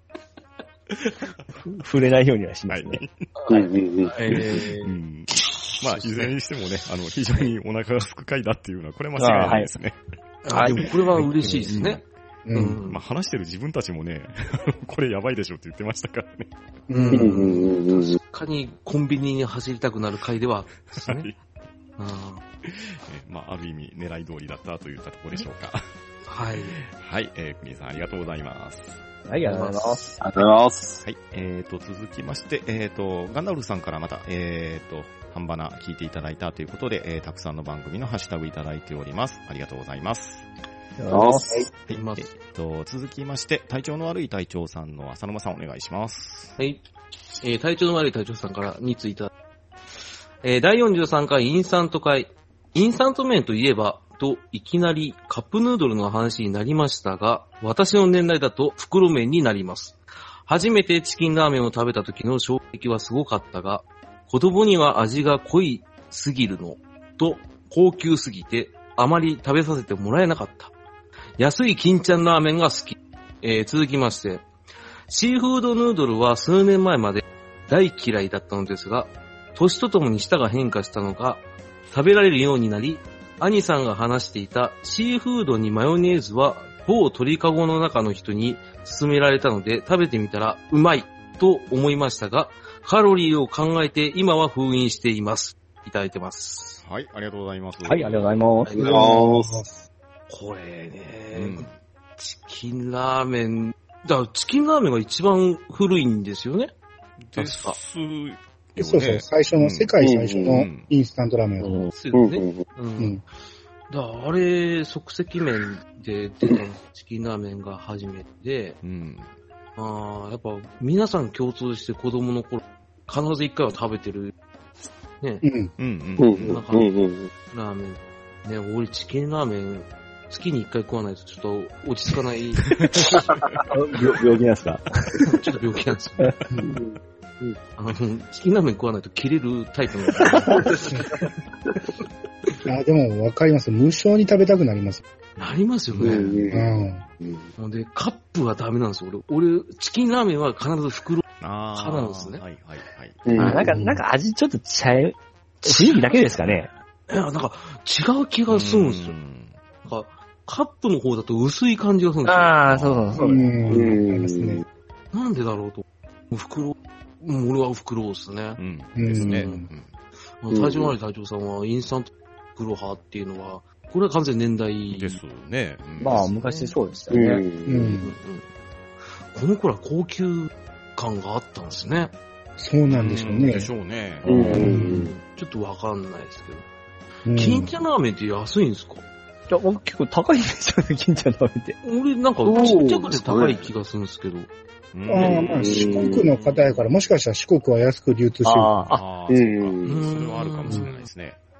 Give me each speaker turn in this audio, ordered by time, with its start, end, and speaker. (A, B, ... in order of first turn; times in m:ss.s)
0:01.7-0:03.0 A
0:02.7-0:03.3 B
0:03.4-0:05.0 C
0:03.5-0:04.6 D
0:04.8-0:10.0 B
0:05.8-0:06.3 C
0:09.2-0:09.7 A
0:10.4-0:13.0 C
0:10.7-0:12.0 B
0:12.5-0:12.8 E
0:12.9-0:16.5 B
0:16.9-0:17.4 E
0:16.9-0:21.3 C
0:17.1-0:18.2 D
0:20.9-0:21.4 B
0:22.0-0:22.4 C
0:22.6-0:25.8 B
0:26.3-0:26.8 C
0:26.8-0:29.0 B
0:29.2-0:30.1 A
0:29.4-0:30.2 C
0:30.2-0:31.0 D
0:31.0-0:40.5 B
0:41.0-0:41.7 A
0:41.1-0:41.7 D
0:41.9-0:42.3 C
0:41.9-0:46.6 B
0:46.6-0:46.8 C
0:47.4-0:49.3 C
0:50.4-1:10.7 C
1:11.4-1:14.5 C
1:15.1-1:36.8 C
1:36.8-1:38.4 B
1:37.8-1:38.7 A
1:38.7-1:39.0 C
1:38.7-1:39.6 D
1:38.8-1:39.8 E
1:40.3-1:46.7 C
1:41.3-1:41.7 B
1:47.2-1:49.9 B
1:47.4-1:47.8 C
1:48.8-1:51.8 E
1:50.0-1:50.6 D
1:50.4-1:50.9 B
1:51.6-1:51.9 A
1:51.9-1:53.2 C
1:52.1-1:52.7 D
1:53.0-1:53.2 E
1:53.9-1:58.8 C
1:58.8-1:59.3 B
1:59.8-2:04.3 C
2:05.4-2:05.7 E
2:05.8-2:06.6 B
2:06.2-2:07.3 D
2:06.4-2:06.9 C
2:07.5-2:12.8 C
2:13.6-2:15.3 A
2:15.2-2:16.4 C
2:16.6-2:17.6 D
2:17.8-2:21.1 C
2:22.7-2:25.0 E
2:25.4-2:26.2 C
2:26.0-2:26.7 B
2:26.0-2:26.7 D
2:26.5-2:27.0 E
2:27.6-2:31.2 C
2:31.4-2:33.2 B
2:31.8-2:32.4 C
2:33.3-2:33.7 D
2:33.4-2:36.7 A
2:33.7-2:34.0 E
2:35.6-2:36.2 C
2:36.3-2:36.6 B
2:37.1-2:39.2 C
2:38.5-2:39.6 B
2:39.8-2:42.6 C
2:42.2-2:43.5 A
2:42.7-2:43.3 B
2:43.2-2:44.6 E
2:43.7-2:44.6 D
2:45.1-2:48.6 C
2:48.6-2:49.9 B
2:49.0-2:49.7 E
2:49.2-2:49.7 C
2:50.4-2:55.2 C
2:50.5-2:51.0 D
2:54.9-2:56.3 B
2:56.0-2:57.4 A
2:56.0-2:56.7 C
2:57.1-2:58.0 D
2:57.7-2:58.1 E
2:58.0-2:58.5 C
2:59.3-3:02.2 C
3:02.6-3:03.7 E
3:02.9-3:04.6 B
3:04.2-3:05.1 D
3:04.3-3:06.6 C
3:04.6-3:04.9 E
3:07.3-3:07.7 E
3:07.3-3:09.0 C
3:09.5-3:11.8 A
3:11.8-3:14.5 C
3:12.4-3:13.7 D
3:14.9-3:16.8 B
3:15.1-3:18.8 E
3:15.2-3:16.3 D
3:18.4-3:19.0 A
3:18.9-3:21.4 B
3:19.3-3:20.0 D
3:19.8-3:21.1 C